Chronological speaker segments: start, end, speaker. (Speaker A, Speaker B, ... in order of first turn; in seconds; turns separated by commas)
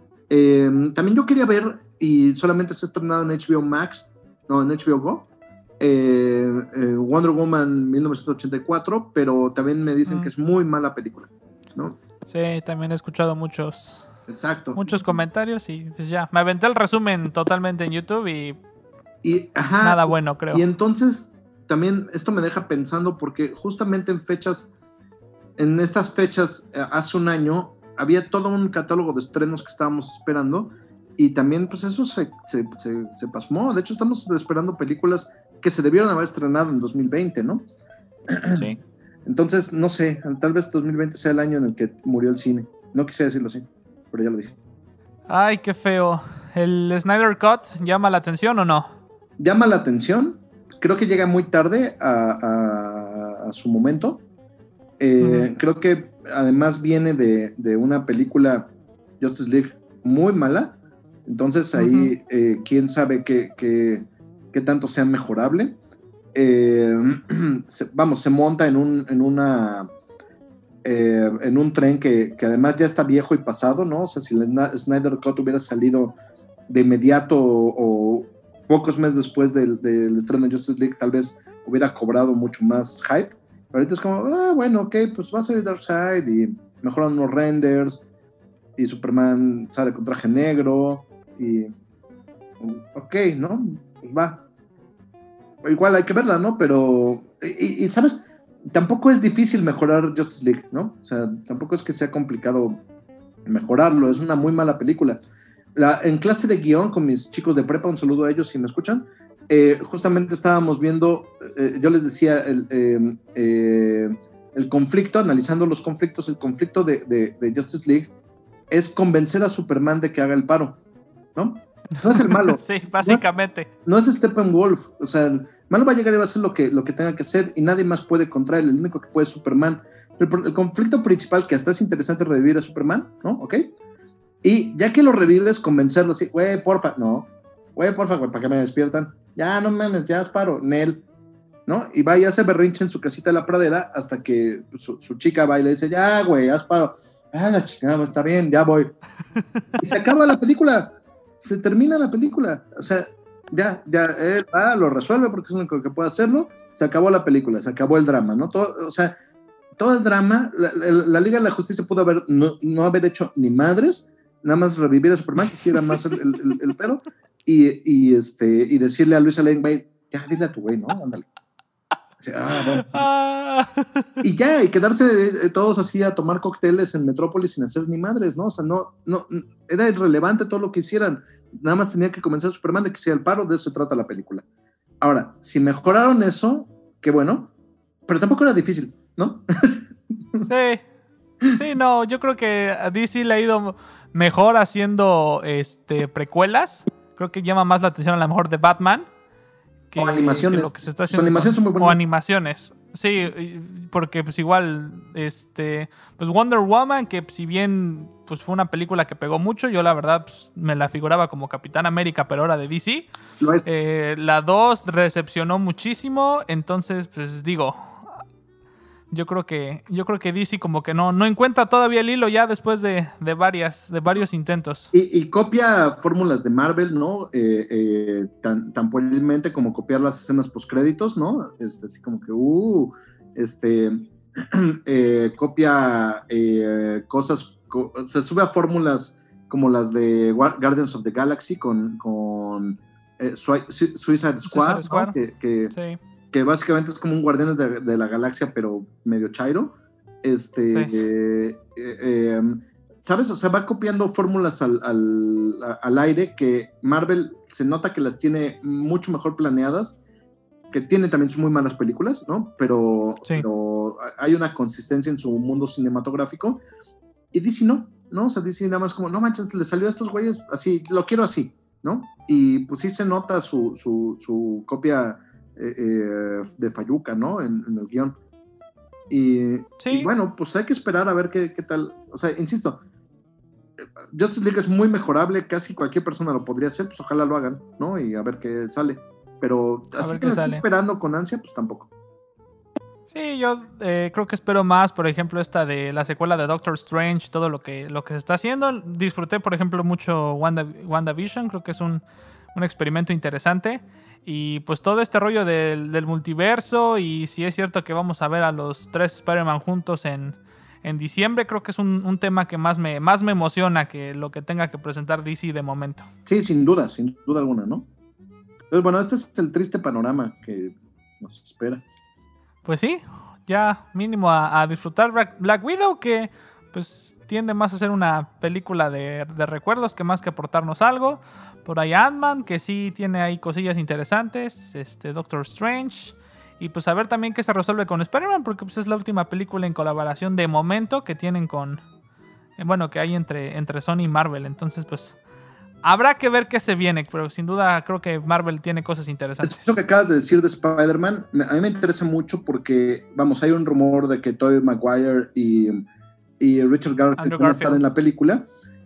Speaker A: 0.3-5.3, Speaker A: 5.8-12.0, Speaker B: 10.1-10.3, Speaker B: 12.3-14.1, Speaker A: 14.3-15.0, Speaker B: 14.8-18.6, Speaker A: 19.2-24.7, Speaker B: 19.8-20.6, Speaker A: 25.6-37.7, Speaker A: 38.3-38.7, Speaker B: 38.5-38.8, Speaker A: 39.2-44.5, Speaker B: 45.3-48.9, Speaker A: 49.4-54.2, Speaker A: 55.0-65.8, Speaker B: 55.2-55.5, Speaker B: 61.8-62.1, Speaker A: 66.3-69.9, Speaker A: 70.8-76.2, Speaker A: 76.7-88.0, Speaker A: 88.8-91.7, Speaker A: 92.6-94.4, Speaker A: 95.6-102.8, Speaker A: 103.5-105.2, Speaker A: 105.8-118.1, Speaker A: 118.7-120.8, Speaker A: 121.3-123.2, Speaker B: 122.2-123.7, Speaker A: 123.8-133.7, Speaker A: 134.4-141.0, Speaker A: 141.7-148.9, Speaker A: 149.8-159.1, Speaker A: 159.8-171.3, Speaker A: 172.2-173.1, Speaker B: 172.6-174.1, Speaker A: 174.2-184.4, Speaker A: 185.0-187.5, Speaker A: 188.1-190.5, Speaker B: 190.4-190.8, Speaker B: 191.6-199.1, Speaker B: 199.9-213.1, Speaker A: 200.0-202.0, Speaker A: 213.4-213.7, Speaker B: 213.7-218.1, Speaker B: 219.1-224.9, Speaker A: 224.9-245.8, Speaker B: 244.5-245.2, Speaker B: 245.7-246.0, Speaker A: 246.3-260.0, Speaker A: 260.7-266.6, Speaker A: 267.3-278.2, Speaker A: 279.1-282.8, Speaker B: 279.8-280.1, Speaker A: 283.8-291.9, Speaker B: 290.0-290.6, Speaker B: 293.1-316.1, Speaker A: 316.3-317.9, Speaker A: 318.7-321.8, Speaker B: 322.6-341.8, Speaker B: 342.6-345.1, Speaker B: 345.8-349.8, Speaker A: 349.4-355.8, Speaker A: 356.4-358.5, Speaker B: 357.2-357.8